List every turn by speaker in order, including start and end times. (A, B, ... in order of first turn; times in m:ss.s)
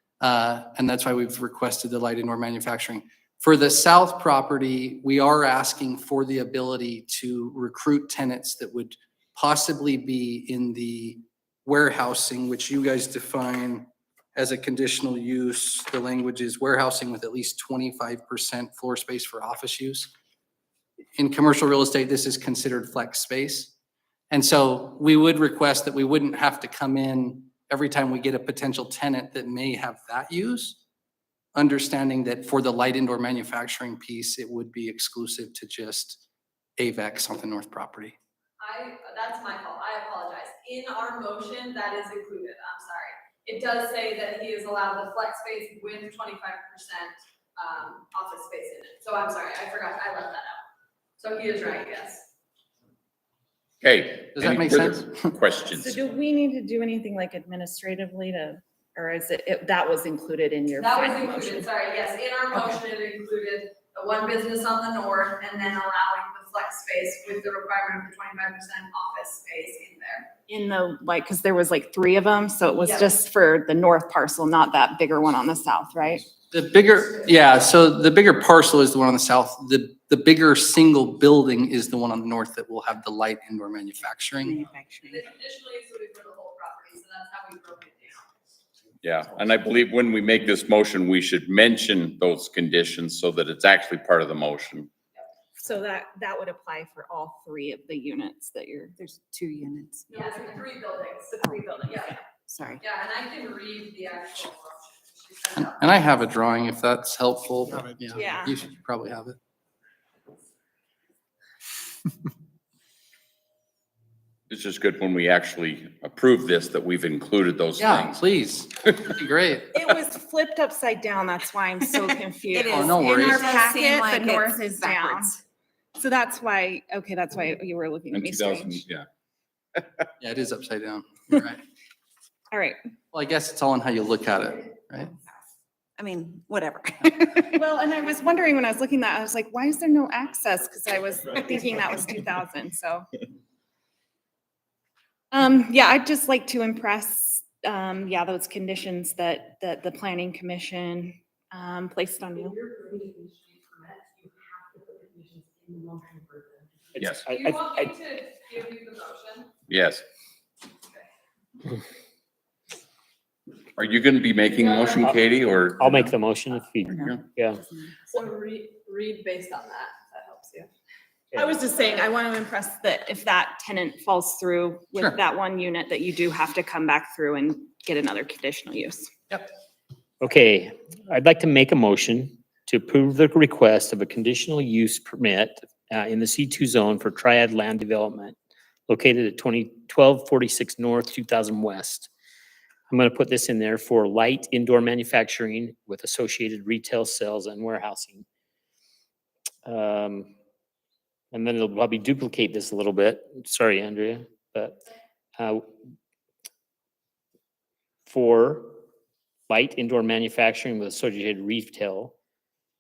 0:00.2-0:20.1 A
0:21.2-0:23.7 A
0:24.3-0:30.8 A
0:31.6-0:36.2 A
0:36.8-0:38.2 A
0:38.6-0:50.6 B
0:51.2-0:52.3 B
0:53.8-0:56.0 C
0:54.4-0:55.3 A
0:55.7-1:01.7 D
1:00.8-1:10.3 B
1:10.5-1:16.3 D
1:12.8-1:13.1 B
1:16.5-1:24.6 A
1:24.5-1:25.2 E
1:25.1-1:28.2 B
1:29.0-1:34.9 C
1:35.6-1:39.0 D
1:39.0-1:40.1 E
1:40.1-1:42.2 B
1:42.5-1:42.8 E
1:42.8-1:46.0 B
1:45.6-1:49.4 A
1:48.1-1:48.6 D
1:54.5-1:58.2 C
1:57.8-1:59.8 A
1:59.7-2:05.4 D
2:02.7-2:03.6 A
2:03.6-2:04.5 E
2:06.0-2:08.8 D
2:08.1-2:09.1 C
2:10.2-2:11.6 A
2:12.5-2:12.8 D
2:13.1-2:15.1 A
2:16.0-2:16.8 E
2:17.4-2:23.0 D
2:25.3-2:32.6 D
2:32.4-2:37.0 F
2:37.0-2:37.9 G
2:37.0-2:37.3 C
2:37.3-2:39.5 B
2:39.7-2:40.0 C
2:43.8-2:46.2 C
2:44.5-2:45.3 B
2:45.0-2:47.6 G
2:48.1-2:50.7 B
2:51.4-2:59.1 D
3:00.2-3:08.4 G
3:08.9-3:12.1 G
3:12.9-3:18.2 G
3:19.6-3:20.3 G
3:21.3-3:24.8 G
3:25.4-3:25.6 G
3:28.1-3:28.8 G
3:29.5-3:32.2 G